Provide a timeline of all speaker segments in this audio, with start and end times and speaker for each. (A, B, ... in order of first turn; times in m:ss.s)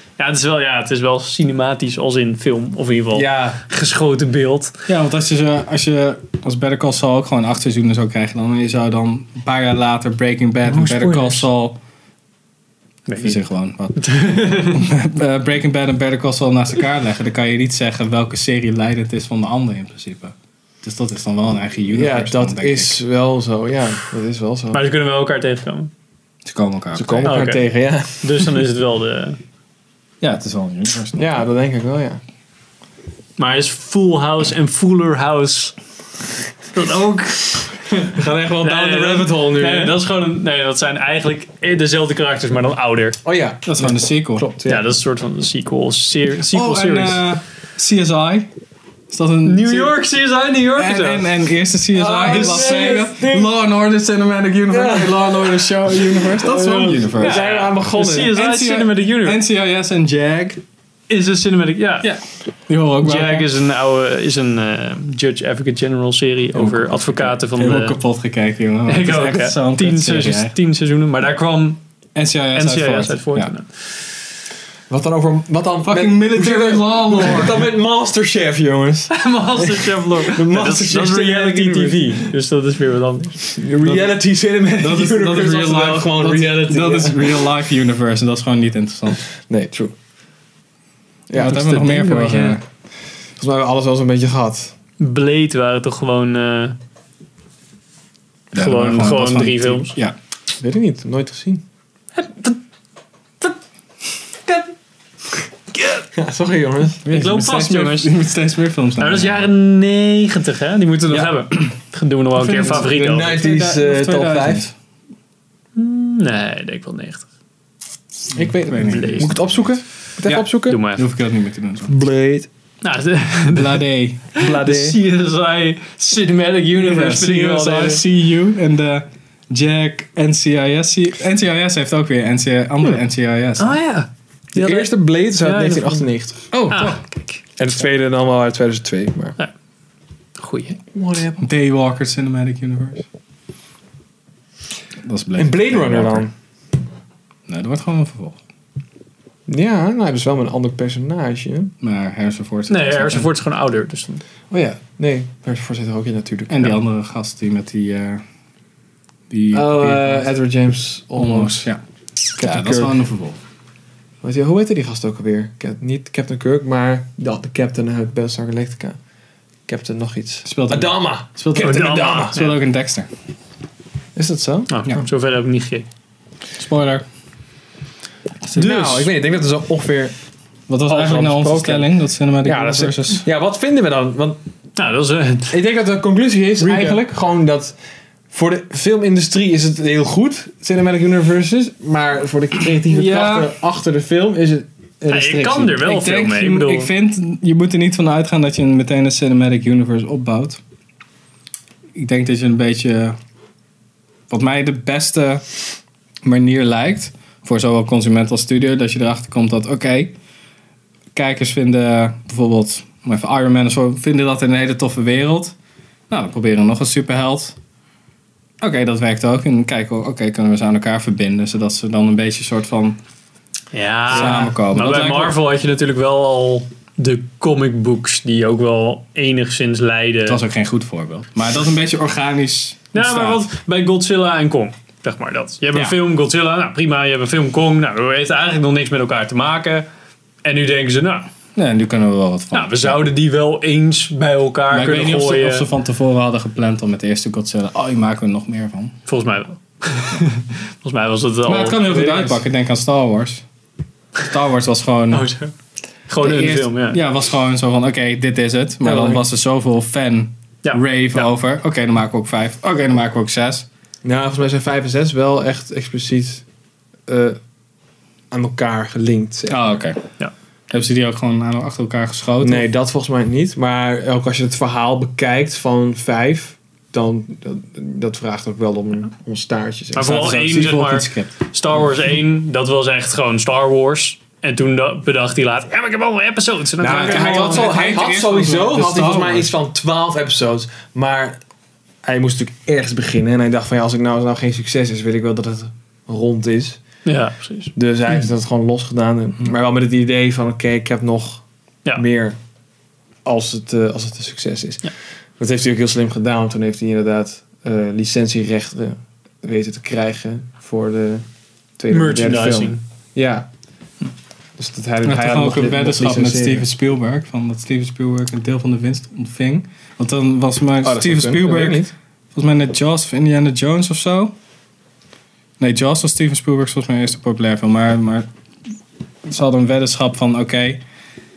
0:00.2-0:04.8 A
0:03.1-0:03.6 B
0:04.9-0:11.8 C
0:10.6-0:11.4 B
0:13.1-0:13.4 A
0:13.2-0:23.0 C
0:14.0-0:14.9 A
0:21.9-0:24.8 B
0:24.7-0:25.9 A
0:26.4-0:27.4 C
0:27.0-0:28.6 B
0:27.2-0:27.6 A
0:28.2-0:29.4 A
0:30.2-0:31.2 C
0:31.2-0:32.2 B
0:33.4-0:35.8 A
0:36.7-0:43.2 A
0:38.1-0:40.0 B
0:43.2-0:44.9 B
0:43.7-0:44.5 C
0:44.6-0:47.2 A
0:46.4-0:48.5 C
0:49.1-0:49.9 C
0:49.4-0:51.3 A
0:50.8-0:57.4 C
0:51.9-0:53.5 B
0:52.3-0:53.0 A
0:54.7-0:58.4 B
0:57.2-0:59.4 A
0:58.2-1:00.6 C
1:01.1-1:02.1 A
1:02.7-1:03.5 C
1:03.0-1:08.0 A
1:06.5-1:10.5 C
1:08.9-1:11.8 A
1:12.2-1:13.5 C
1:12.5-1:14.0 A
1:14.9-1:22.3 B
1:15.8-1:17.7 C
1:19.1-1:23.5 A
1:23.5-1:27.4 B
1:23.8-1:24.2 C
1:24.8-1:29.2 C
1:29.5-1:29.9 B
1:31.3-1:32.5 B
1:31.4-1:32.6 C
1:31.7-1:32.6 A
1:33.4-1:34.7 B
1:35.0-1:36.8 A
1:38.5-1:40.2 C
1:38.5-1:39.9 A
1:40.6-1:41.6 B
1:42.2-1:42.6 A
1:45.7-1:46.0 A
1:46.1-1:47.5 B
1:47.1-1:48.1 A
1:47.1-1:49.5 C
1:49.0-1:53.4 A
1:52.4-1:54.7 C
1:52.6-1:54.7 B
1:55.8-1:57.3 A
1:58.3-2:01.9 C
1:58.4-2:00.8 B
1:58.8-1:59.3 A
2:00.7-2:01.0 A
2:01.9-2:02.5 B
2:02.8-2:03.8 A
2:03.5-2:04.3 C
2:04.4-2:08.0 A
2:04.4-2:05.0 B
2:06.8-2:13.8 C
2:13.6-2:16.1 A
2:14.6-2:16.9 B
2:16.5-2:17.0 C
2:16.7-2:17.4 A
2:17.6-2:19.4 B
2:20.4-2:20.8 A
2:20.9-2:21.4 B
2:21.4-2:23.0 C
2:25.0-2:26.3 C
2:25.4-2:26.3 B
2:27.5-2:28.4 C
2:29.5-2:31.7 B
2:31.8-2:33.3 C
2:32.7-2:34.2 A
2:34.5-2:36.8 B
2:36.5-2:38.2 C
2:39.3-2:40.3 C
2:39.5-2:41.7 B
2:41.2-2:41.8 C
2:42.4-2:43.0 B
2:42.4-2:43.4 C
2:44.2-2:49.0 B
2:49.7-2:52.4 B
2:50.4-2:53.1 C
2:51.6-2:52.6 A
2:54.2-2:54.8 B
2:54.7-2:55.9 A
2:56.6-2:57.0 C
2:58.5-3:00.1 B
2:58.6-2:59.1 A
3:00.7-3:03.3 C
3:00.9-3:01.9 B
3:02.4-3:04.4 B
3:04.8-3:05.6 A
3:05.5-3:07.7 B
3:06.6-3:07.0 A
3:08.3-3:15.8 B
3:12.9-3:13.5 C
3:15.1-3:16.9 A
3:15.8-3:20.6 C
3:22.0-3:23.2 C
3:24.3-3:25.5 C
3:26.2-3:30.2 C
3:31.1-3:35.6 C
3:36.1-3:37.6 C
3:38.6-3:43.0 C
3:43.7-3:50.4 A
3:44.1-3:45.4 C
3:44.2-3:44.5 B
3:50.3-3:53.4 C
3:52.9-3:59.9 A
4:00.4-4:01.3 A
4:01.6-4:03.1 C
4:02.5-4:05.7 A
4:04.7-4:09.0 C
4:09.1-4:12.0 A
4:11.5-4:13.4 C
4:11.9-4:12.4 B
4:14.2-4:15.3 C
4:15.1-4:15.5 A
4:16.1-4:17.0 A
4:16.2-4:23.7 C
4:18.8-4:19.2 B
4:20.6-4:21.3 A
4:24.0-4:26.4 B
4:27.1-4:27.4 B
4:28.3-4:29.8 B
4:29.5-4:30.0 C
4:30.7-4:32.7 C
4:32.4-4:40.2 B
4:39.9-4:48.0 A
4:40.0-4:41.3 C
4:46.8-4:51.4 B
4:46.8-4:49.5 C
4:52.0-4:56.8 B
4:57.1-4:57.7 A
4:57.8-5:01.4 B
5:02.0-5:02.4 B
5:03.2-5:11.2 B
5:11.8-5:13.5 B
5:11.9-5:12.8 A
5:14.6-5:16.7 B
5:15.0-5:21.8 C
5:20.8-5:21.9 B
5:22.3-5:24.4 C
5:25.6-5:28.3 C
5:29.2-5:30.8 C